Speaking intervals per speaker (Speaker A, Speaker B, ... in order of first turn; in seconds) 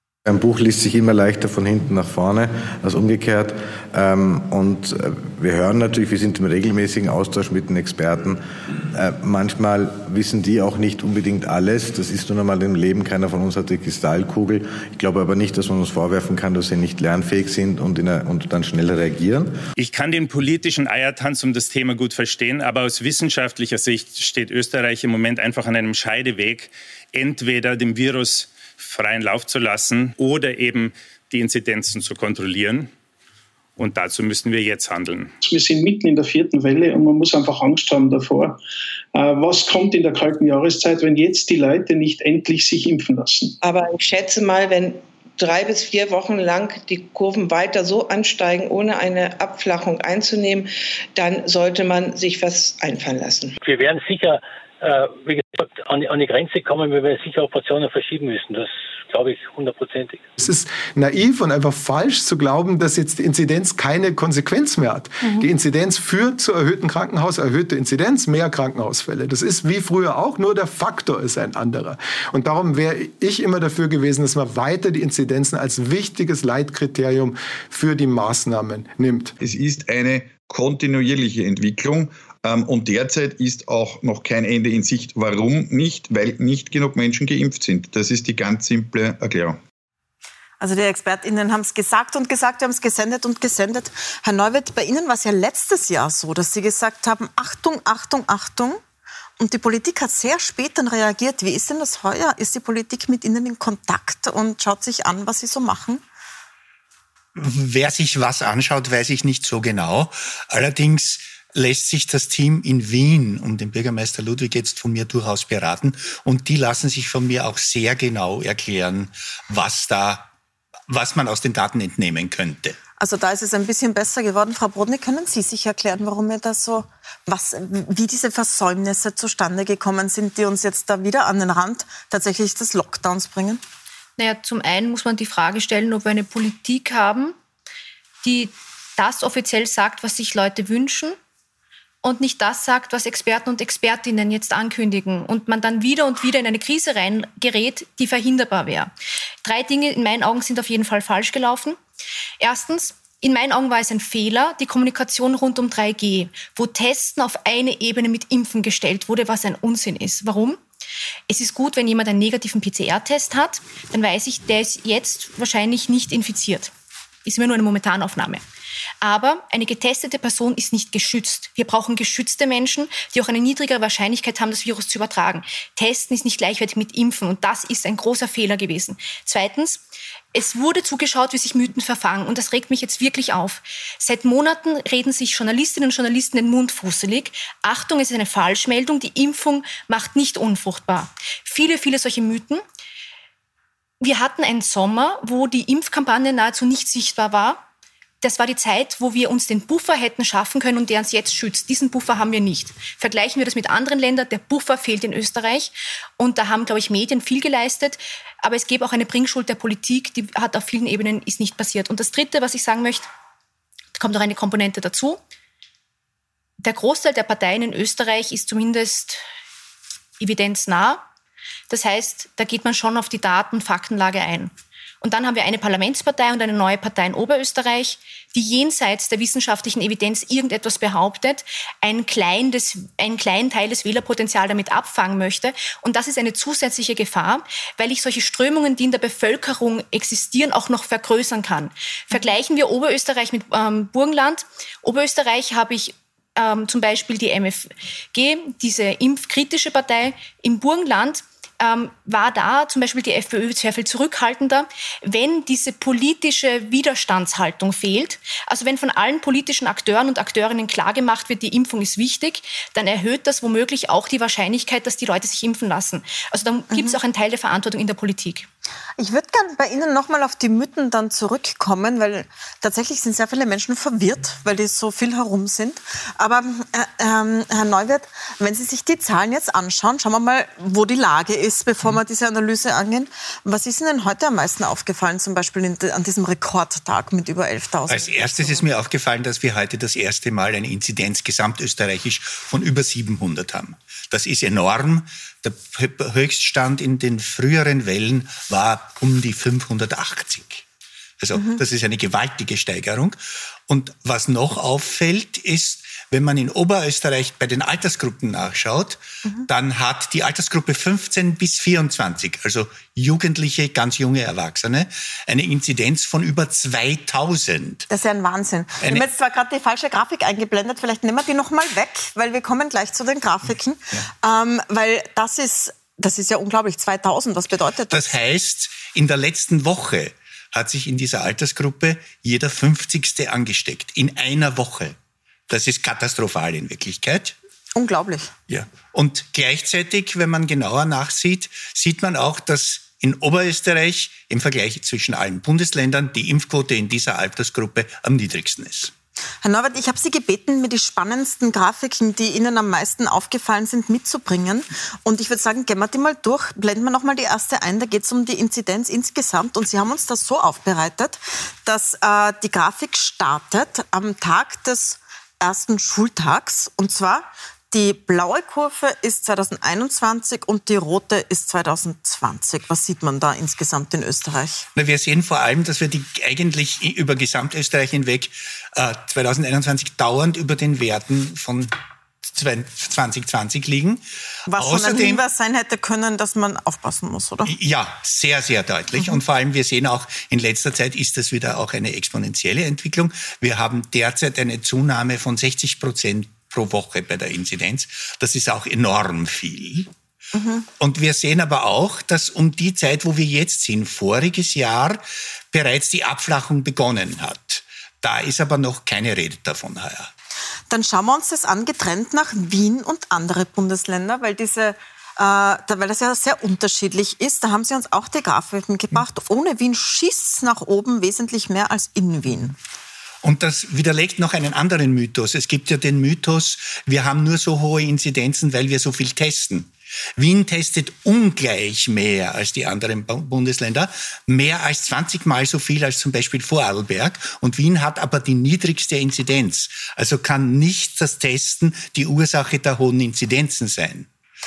Speaker A: 0.3-19.6
Speaker B: 19.8-32.9, 33.8-35.3
Speaker C: 35.4-38.6, 39.1-43.5
Speaker D: 43.6-53.6
Speaker E: 53.6-60.2
Speaker F: 60.4-79.3
Speaker G: 79.4-89.6
Speaker H: 90.6-98.8, 99.4-106.0, 123.0-133.6, 266.7-267.0, 269.0-288.6, 317.9-328.1, 337.8-338.3, 349.4-374.7, 384.5-387.5, 400.3-400.7, 410.7-422.6
Speaker I: 107.3-120.3, 120.9-122.8, 287.9-300.6, 301.2-303.2, 303.7-317.9, 327.9-335.0, 335.5-337.4, 338.5-348.9, 374.8-381.7, 382.2-384.0, 384.6-385.2, 387.5-399.9, 400.8-410.1, 423.2-444.1
Speaker J: 134.2-137.4, 138.2-141.2, 142.0-148.9, 149.4-151.8, 152.4-160.6, 161.3-166.7, 167.3-168.4, 169.0-179.8, 180.3-192.6, 194.0-197.6, 198.2-213.1, 214.0-215.2, 216.6-219.2, 220.2-221.1, 221.7-268.5